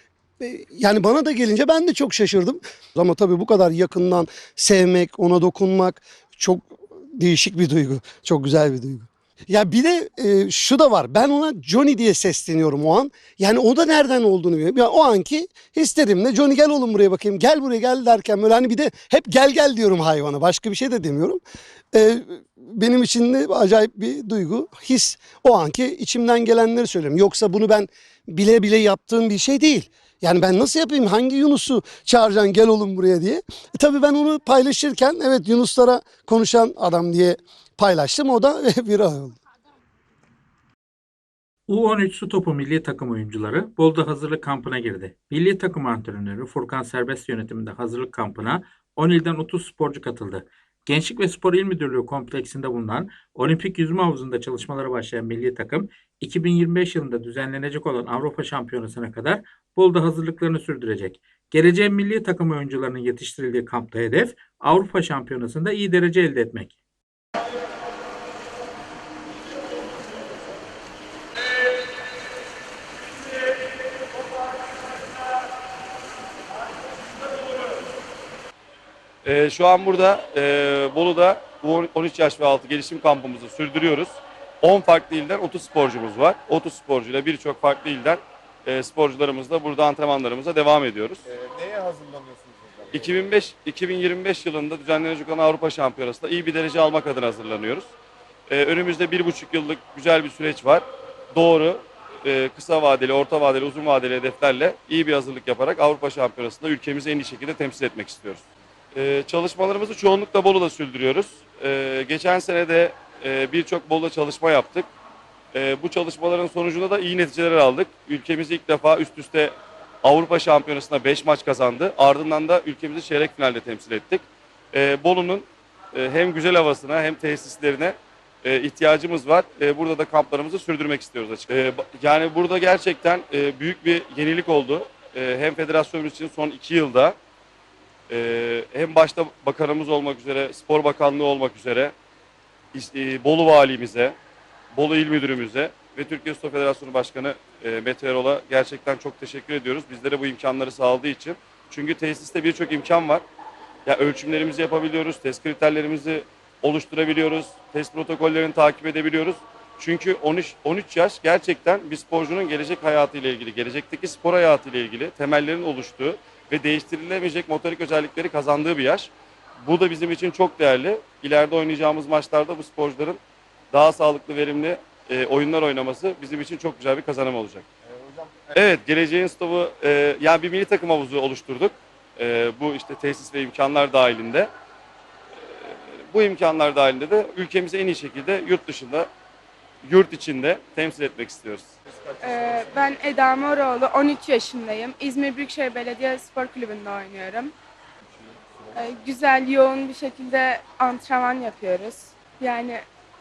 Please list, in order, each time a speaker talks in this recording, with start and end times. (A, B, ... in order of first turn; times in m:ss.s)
0:00.4-0:21.4 A
0:21.9-0:39.4 A
0:41.7-1:06.8 B
1:19.2-1:31.2 C
1:31.3-1:33.3 D
1:32.9-1:37.9 C
1:38.5-1:54.9 C
1:55.5-2:17.2 C
2:18.1-2:21.9 C
2:22.7-2:24.1 C
2:24.7-2:33.2 C
2:33.9-2:49.1 C
2:49.6-2:53.2 C
2:53.7-2:57.6 C
2:57.9-2:58.6 D
2:58.6-3:04.5 C
3:05.4-3:09.1 C
3:09.8-3:11.7 C
3:12.0-3:12.9 D
3:12.2-3:17.5 E
3:18.2-3:18.8 D
3:18.8-3:22.8 E